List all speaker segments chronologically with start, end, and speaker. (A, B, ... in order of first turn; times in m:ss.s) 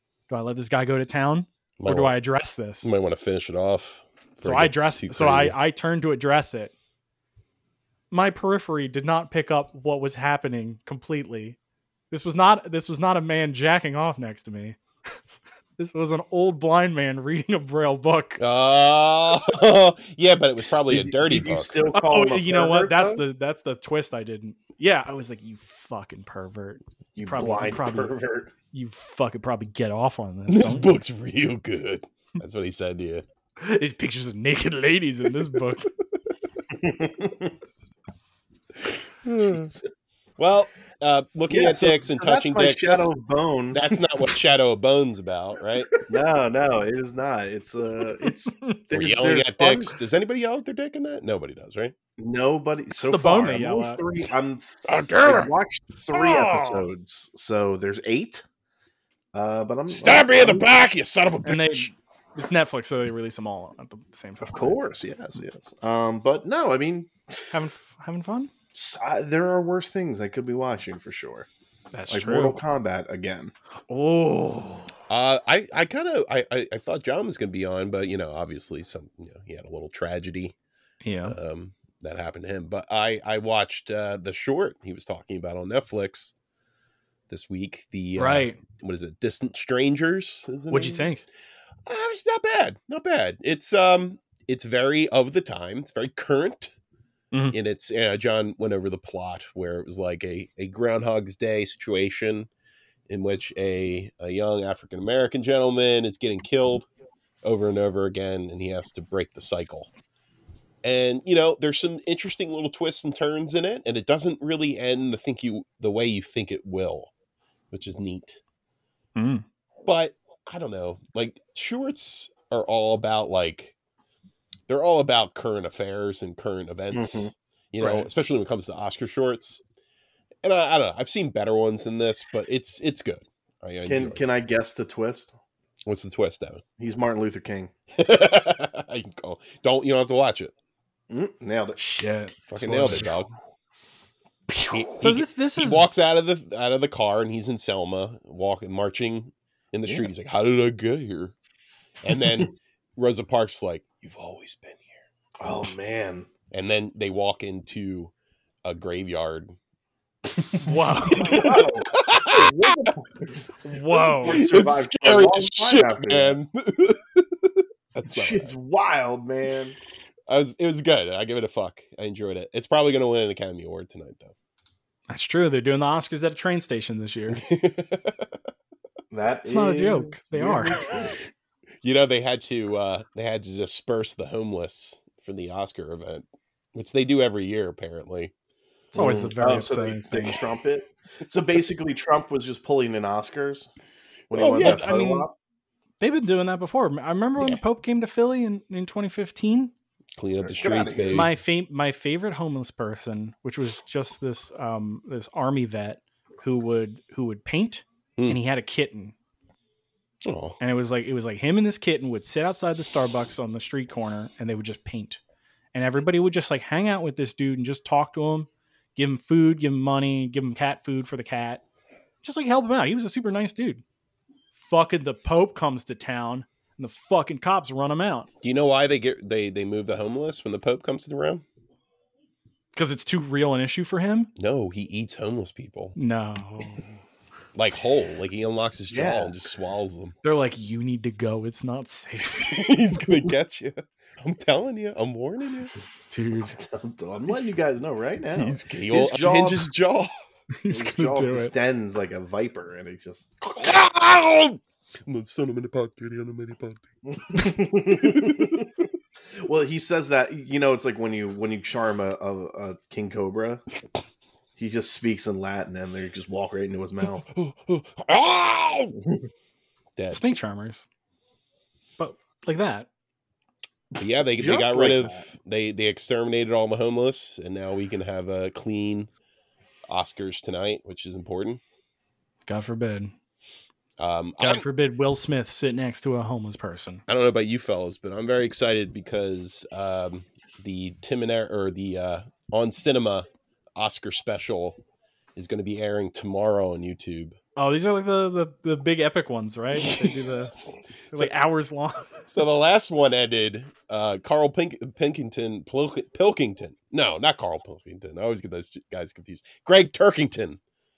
0:00.3-0:02.9 A
0:01.8-0:02.1 B
0:02.8-0:05.6 B
0:04.4-0:06.7 A
0:08.1-0:11.6 A
0:12.1-0:14.8 A
0:15.8-0:18.4 A
0:18.4-0:21.8 B
0:20.9-0:23.2 C
0:21.9-0:28.2 A
0:27.1-0:28.5 C
0:28.7-0:31.0 A
0:30.5-0:33.2 B
0:33.6-0:35.9 A
0:36.7-0:37.5 C
0:39.2-0:39.8 B
0:40.4-0:43.1 B
0:41.5-0:43.8 C
0:43.7-0:45.9 B
0:46.1-0:50.0 C
0:48.2-0:48.7 A
0:48.9-0:51.9 B
0:52.2-0:58.4 C
0:52.9-0:54.0 A
0:54.9-0:55.5 B
0:56.1-0:56.8 A
0:59.3-1:00.7 C
0:59.9-1:01.9 B
1:01.4-1:04.8 A
1:04.4-1:07.6 C
1:07.5-1:08.5 A
1:08.7-1:11.5 C
1:11.9-1:12.6 A
1:12.1-1:13.5 C
1:13.9-1:14.9 A
1:15.1-1:20.5 B
1:21.0-1:21.4 A
1:21.2-1:26.3 B
1:27.3-1:31.1 B
1:28.2-1:28.6 A
1:30.7-1:31.2 A
1:31.8-1:36.7 B
1:37.5-1:42.5 B
1:43.1-1:46.9 B
1:47.4-1:49.9 B
1:50.8-1:57.1 B
1:57.7-1:58.4 B
1:59.2-1:59.4 A
1:59.8-2:03.7 B
2:04.7-2:09.6 B
2:06.9-2:08.0 C
2:10.4-2:14.2 B
2:13.8-2:15.3 C
2:15.8-2:16.6 B
2:16.8-2:17.7 C
2:18.0-2:20.5 B
2:21.1-2:21.8 C
2:21.8-2:23.2 A
2:22.5-2:23.3 B
2:24.5-2:25.9 A
2:24.7-2:31.3 B
2:32.0-2:35.0 B
2:35.4-2:36.3 C
2:36.5-2:38.1 B
2:38.6-2:39.6 B
2:40.6-2:41.6 A
2:40.6-2:46.4 C
2:41.2-2:42.8 B
2:43.6-2:44.4 A
2:44.2-2:48.5 B
2:48.0-2:49.8 C
2:50.3-2:54.3 B
2:55.1-2:57.4 A
2:57.3-2:58.4 B
2:59.1-3:01.2 C
2:59.4-3:00.8 A
3:01.8-3:08.3 B
3:08.9-3:10.4 A
3:08.9-3:13.7 C
3:14.3-3:15.3 C
3:14.3-3:14.9 B
3:14.5-3:15.3 A
3:16.0-3:19.7 A
3:20.2-3:21.3 B
3:20.4-3:21.3 C
3:21.1-3:29.1 A
3:30.2-3:30.6 B
3:30.6-3:35.2 A
3:35.7-3:41.6 A
3:42.2-3:43.8 A
3:44.5-3:48.3 A
3:48.4-3:51.4 B
3:52.7-3:54.3 A
3:54.4-3:56.0 B
3:56.0-3:56.8 A
3:57.5-4:00.1 B
3:58.9-3:59.4 C
4:00.2-4:02.7 A
4:02.4-4:05.7 B
4:06.1-4:06.6 A
4:06.5-4:09.7 C
4:08.4-4:10.1 B
4:10.6-4:11.5 A
4:10.7-4:13.3 C
4:13.4-4:16.8 B
4:17.0-4:18.8 C
4:17.8-4:18.7 B
4:19.4-4:23.6 C
4:24.6-4:27.2 C
4:27.2-4:29.0 B
4:30.0-4:30.3 B
4:30.1-4:30.8 A
4:32.0-4:32.9 A
4:34.0-4:39.1 B
4:34.4-4:35.2 C
4:39.9-4:41.6 B
4:42.5-4:43.1 A
4:44.0-4:44.6 B
4:44.4-4:47.0 A
4:47.1-4:54.8 B
4:55.4-4:57.4 B
4:57.6-5:00.6 A
4:59.7-5:01.3 B
5:01.1-5:02.2 A
5:02.3-5:10.6 B